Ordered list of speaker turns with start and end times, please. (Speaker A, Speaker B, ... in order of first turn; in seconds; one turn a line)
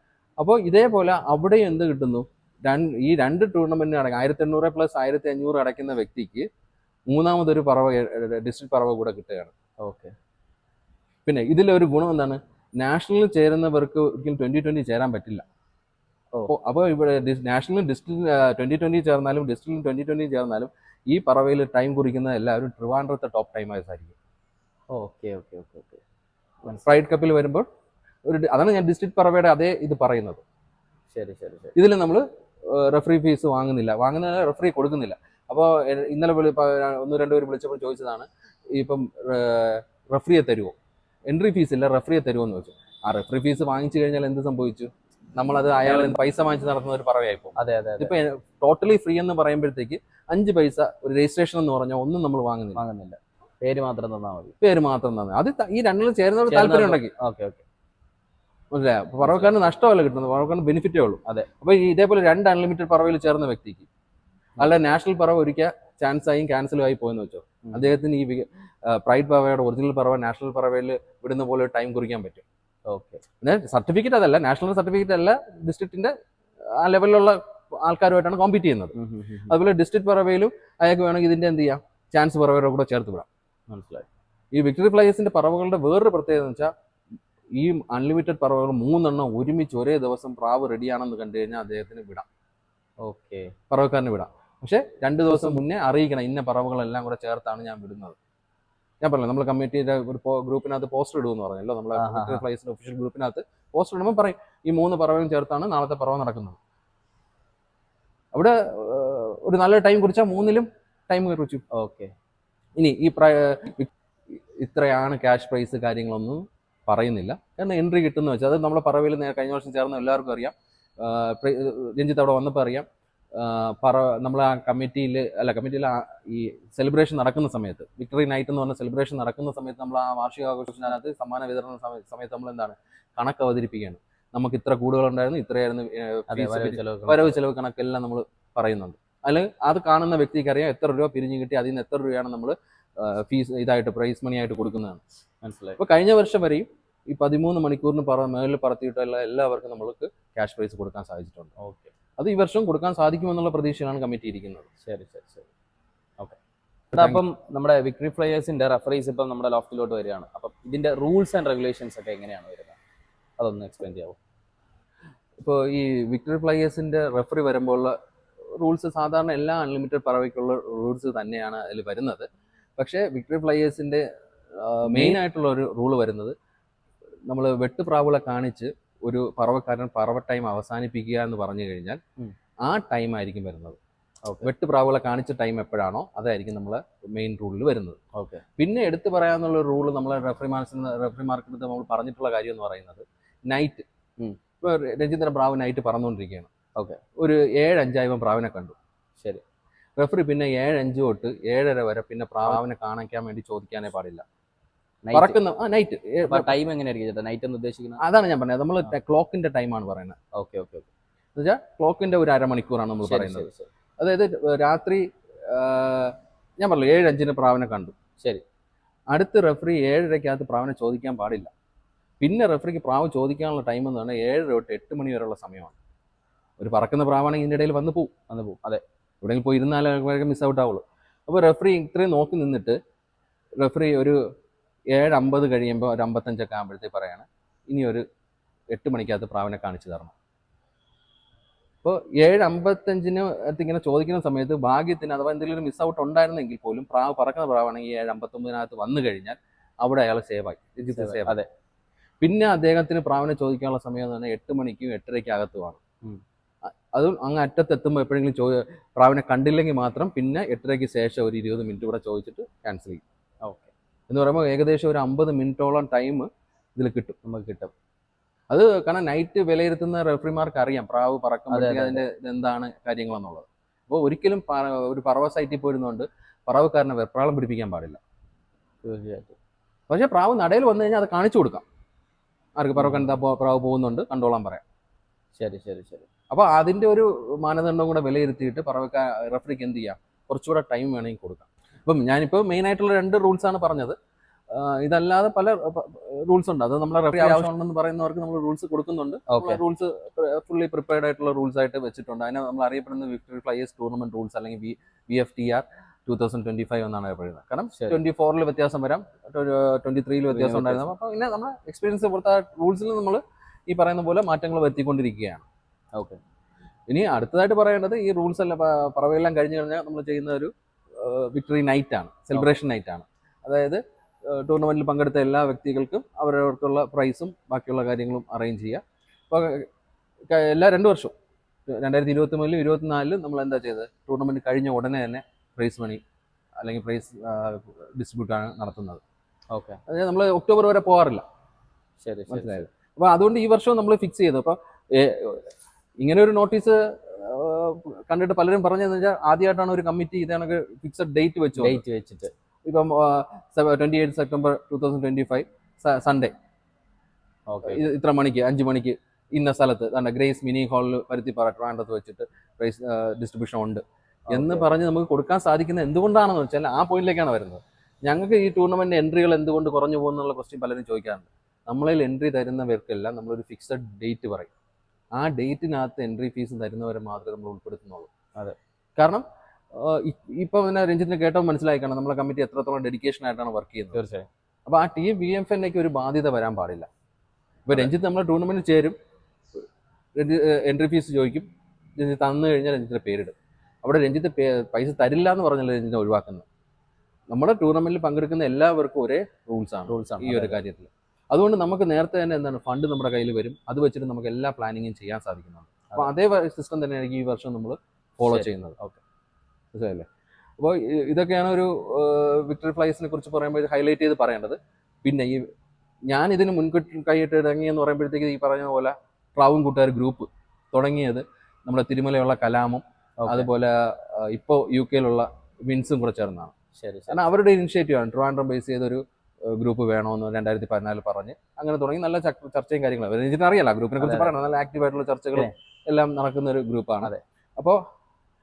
Speaker A: 0.4-6.5
Speaker A: 7.1-9.5
Speaker B: 9.8-10.1
Speaker A: 11.3-15.4
Speaker A: 16.5-24.1
Speaker B: 24.9-26.0
Speaker B: 26.6-26.9
Speaker A: 26.8-27.7
Speaker A: 28.2-30.4
Speaker B: 31.1-31.8
Speaker A: 31.8-40.7
Speaker A: 41.3-52.8
Speaker B: 45.8-46.2
Speaker B: 47.6-48.1
Speaker B: 52.8-54.6
Speaker A: 54.6-57.1
Speaker B: 56.5-57.6
Speaker A: 58.7-63.9
Speaker B: 59.2-59.5
Speaker A: 64.6-72.4
Speaker B: 67.7-67.9
Speaker B: 72.9-73.2
Speaker A: 73.4-76.1
Speaker A: 76.8-79.0
Speaker B: 79.0-79.6
Speaker A: 79.5-83.3
Speaker B: 83.7-84.1
Speaker A: 84.5-86.7
Speaker A: 87.6-92.3
Speaker B: 93.0-93.5
Speaker A: 93.7-98.2
Speaker B: 95.3-95.6
Speaker A: 99.0-106.6
Speaker B: 102.0-102.4
Speaker A: 108.3-111.6
Speaker B: 111.7-112.1
Speaker A: 112.8-113.9
Speaker A: 114.6-145.0
Speaker B: 136.3-137.4
Speaker B: 145.4-145.8
Speaker A: 145.8-151.5
Speaker B: 151.6-151.9
Speaker A: 152.2-154.7
Speaker B: 154.8-155.5
Speaker B: 156.9-162.8
Speaker A: 156.9-157.2
Speaker B: 163.4-164.2
Speaker A: 165.4-167.9
Speaker A: 168.6-172.3
Speaker A: 172.8-174.0
Speaker A: 174.6-176.3
Speaker B: 174.9-175.2
Speaker A: 177.3-182.0
Speaker A: 182.6-183.8
Speaker B: 184.2-184.5
Speaker A: 184.4-188.0
Speaker B: 188.1-188.4
Speaker A: 188.6-193.8
Speaker A: 194.6-196.5
Speaker B: 196.8-197.0
Speaker A: 197.2-198.8
Speaker A: 200.0-204.2
Speaker B: 205.0-205.4
Speaker A: 205.1-206.5
Speaker B: 206.3-208.0
Speaker A: 208.0-210.2
Speaker B: 210.3-210.9
Speaker A: 211.4-213.5
Speaker B: 213.0-213.7
Speaker A: 214.0-217.9
Speaker A: 219.1-221.5
Speaker A: 222.2-225.8
Speaker A: 226.6-228.1
Speaker B: 228.3-228.8
Speaker A: 229.2-232.8
Speaker A: 233.6-234.2
Speaker A: 234.9-238.0
Speaker A: 238.7-240.1
Speaker A: 241.8-251.4
Speaker B: 250.9-251.5
Speaker A: 252.2-255.8
Speaker A: 256.9-263.0
Speaker B: 263.4-263.7
Speaker A: 264.1-267.2
Speaker B: 267.2-267.7
Speaker A: 268.5-278.0
Speaker B: 271.5-272.0
Speaker B: 278.8-279.4
Speaker A: 279.9-281.6
Speaker A: 282.6-284.6
Speaker B: 282.8-283.1
Speaker B: 285.4-286.1
Speaker A: 286.3-293.9
Speaker A: 294.5-315.4
Speaker B: 297.1-297.5
Speaker B: 299.3-299.6
Speaker B: 310.3-310.8
Speaker B: 315.9-316.2
Speaker A: 316.9-329.7
Speaker A: 330.3-331.1
Speaker A: 331.7-336.0
Speaker A: 336.6-339.0
Speaker B: 339.5-339.8
Speaker A: 339.9-341.2
Speaker B: 342.0-342.7
Speaker A: 342.3-351.8
Speaker B: 351.6-352.3
Speaker A: 352.6-356.3
Speaker B: 357.5-357.8
Speaker A: 357.6-374.5
Speaker B: 364.3-364.7
Speaker A: 375.1-378.1
Speaker A: 379.0-379.2
Speaker A: 379.8-384.0
Speaker B: 383.9-384.3
Speaker A: 384.7-386.9
Speaker A: 387.7-388.9
Speaker A: 390.1-396.4
Speaker A: 397.3-408.8
Speaker B: 399.9-400.6
Speaker B: 408.2-409.0
Speaker A: 409.7-410.1
Speaker A: 410.6-415.5
Speaker A: 416.1-426.5
Speaker B: 423.2-423.5
Speaker B: 426.8-427.3
Speaker A: 427.1-437.8
Speaker B: 434.0-434.3